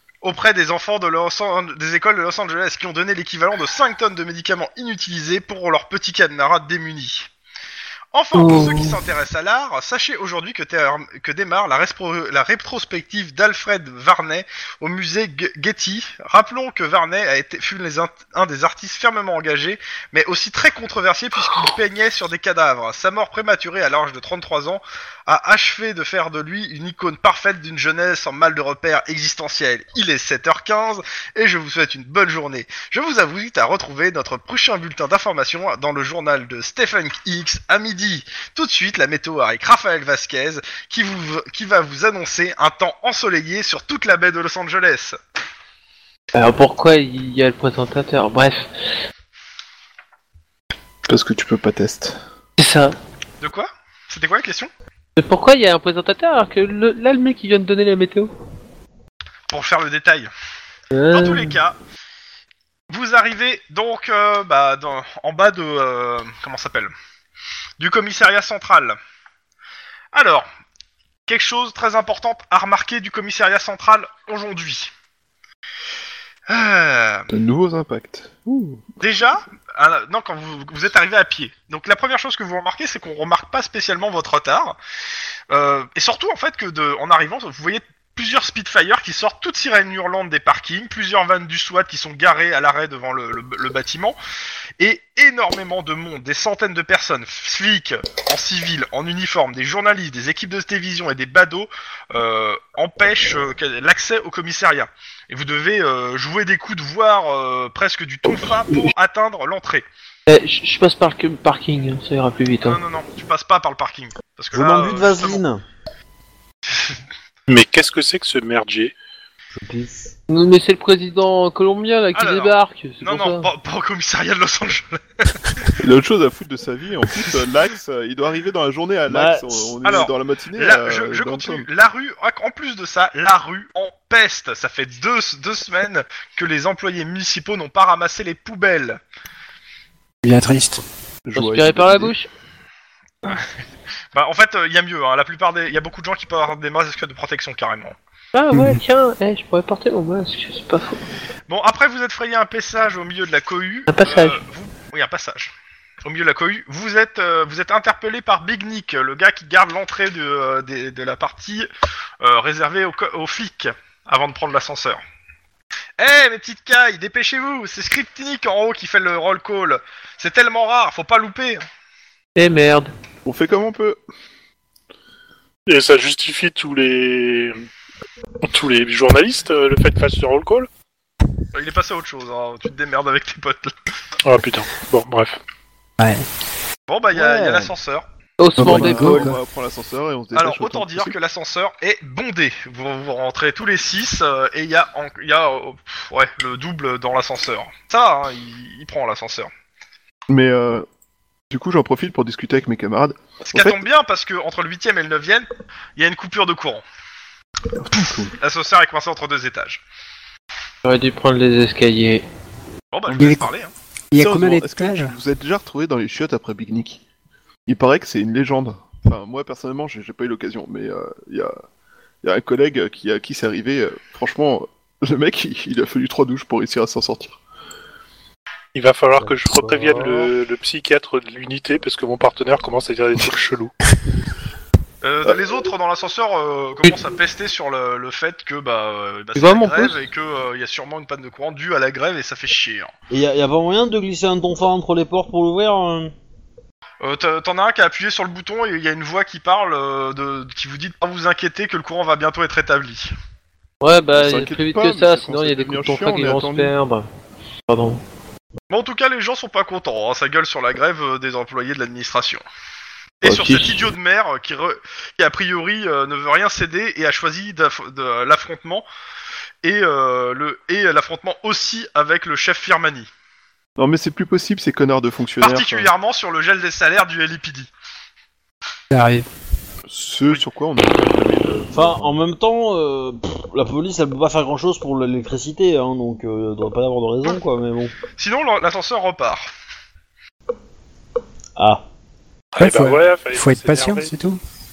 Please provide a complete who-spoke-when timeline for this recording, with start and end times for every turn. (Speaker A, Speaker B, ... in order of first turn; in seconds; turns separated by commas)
Speaker A: 0.2-7.3, Speaker A: 8.1-45.2, Speaker B: 8.3-9.0, Speaker B: 46.3-48.7, Speaker C: 51.1-52.2, Speaker B: 52.6-52.9, Speaker A: 53.4-54.7, Speaker B: 55.1-58.3, Speaker A: 59.5-60.3, Speaker B: 60.9-61.6, Speaker A: 61.1-61.8, Speaker A: 62.9-66.9, Speaker A: 67.8-69.0, Speaker A: 70.1-70.5, Speaker A: 71.3-74.9, Speaker A: 76.5-77.3, Speaker C: 77.3-78.9, Speaker A: 79.0-84.8, Speaker A: 85.5-94.2, Speaker A: 94.8-109.8, Speaker B: 108.3-108.9, Speaker B: 110.3-112.8, Speaker A: 112.6-115.4, Speaker D: 114.5-115.6, Speaker E: 117.5-118.9, Speaker D: 119.5-120.1, Speaker B: 120.3-123.5, Speaker A: 122.1-125.7, Speaker C: 125.8-131.7, Speaker D: 129.1-129.8, Speaker A: 129.8-139.0, Speaker F: 140.2-140.8, Speaker C: 141.2-142.1, Speaker B: 141.3-142.3, Speaker A: 144.1-147.9, Speaker B: 148.3-151.0, Speaker F: 148.5-148.8, Speaker A: 151.5-155.5, Speaker B: 153.9-154.4, Speaker A: 156.0-161.7, Speaker A: 162.2-165.0, Speaker A: 166.0-171.6, Speaker B: 172.3-172.9, Speaker C: 173.2-174.0, Speaker E: 175.7-177.6, Speaker E: 178.4-180.7, Speaker A: 181.5-183.7, Speaker E: 184.2-185.4, Speaker F: 186.0-186.2, Speaker A: 186.9-188.0, Speaker B: 188.4-189.3, Speaker F: 188.6-189.4, Speaker C: 188.6-191.1, Speaker A: 190.3-199.5, Speaker C: 200.3-200.8, Speaker C: 201.5-203.8, Speaker A: 203.4-206.8, Speaker C: 207.8-208.3, Speaker A: 208.4-209.8, Speaker B: 210.8-212.2, Speaker A: 212.9-213.7, Speaker F: 213.2-213.5, Speaker F: 214.1-215.1, Speaker C: 214.1-217.0, Speaker C: 217.7-221.5, Speaker C: 222.2-227.4, Speaker E: 228.7-233.7, Speaker A: 229.9-230.3, Speaker A: 235.0-242.9, Speaker B: 239.3-240.0, Speaker D: 243.1-246.1, Speaker A: 247.0-253.1, Speaker B: 253.8-257.1, Speaker C: 254.1-256.7, Speaker B: 257.7-258.0, Speaker A: 258.7-262.4, Speaker A: 263.2-268.9, Speaker B: 263.2-263.8, Speaker A: 269.6-273.1, Speaker C: 273.8-275.9, Speaker A: 275.4-277.7, Speaker F: 278.9-279.2, Speaker C: 279.9-282.1, Speaker D: 281.7-287.9, Speaker A: 288.1-289.5, Speaker D: 291.6-291.8, Speaker E: 292.5-294.1, Speaker F: 292.6-294.4